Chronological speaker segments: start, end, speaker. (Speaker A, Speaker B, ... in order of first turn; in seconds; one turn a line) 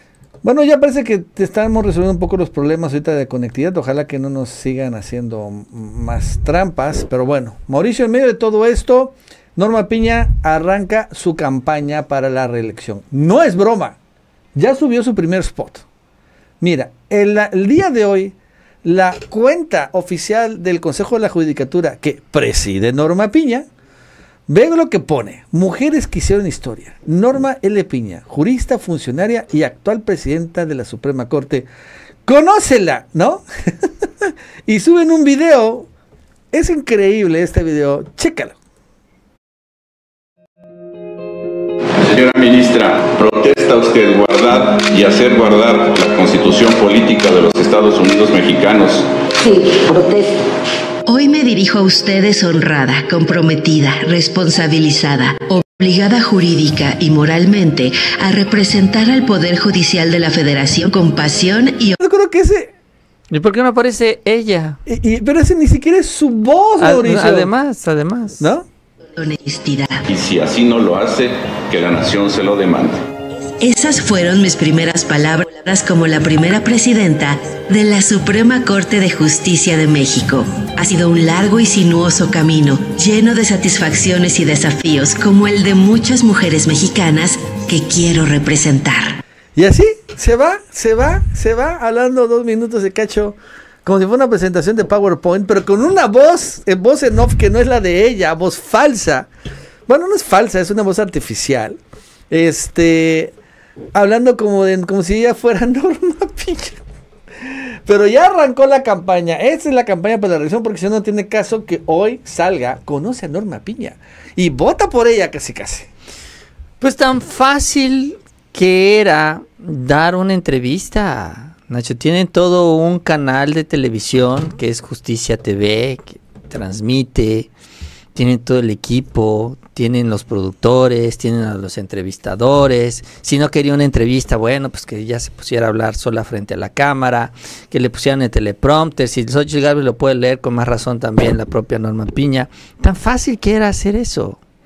Speaker A: 0.4-14.0
Speaker A: 14.6-15.8
Speaker A: 16.6-23.7
Speaker A: 24.5-31.7
Speaker A: 32.2-35.9
Speaker A: 36.5-38.6
Speaker B: 42.0-49.0
Speaker C: 49.4-50.2
Speaker C: 51.1-62.0
Speaker A: 62.0-62.7
Speaker D: 63.3-64.8
Speaker A: 64.9-67.5
Speaker D: 66.8-68.5
Speaker A: 68.4-68.6
Speaker C: 69.2-70.0
Speaker B: 70.1-73.0
Speaker C: 73.6-89.2
Speaker A: 89.5-99.3
Speaker A: 99.9-101.8
Speaker A: 102.3-103.3
Speaker A: 103.9-106.8
Speaker A: 107.4-115.9
Speaker D: 116.8-127.5
Speaker D: 128.1-144.4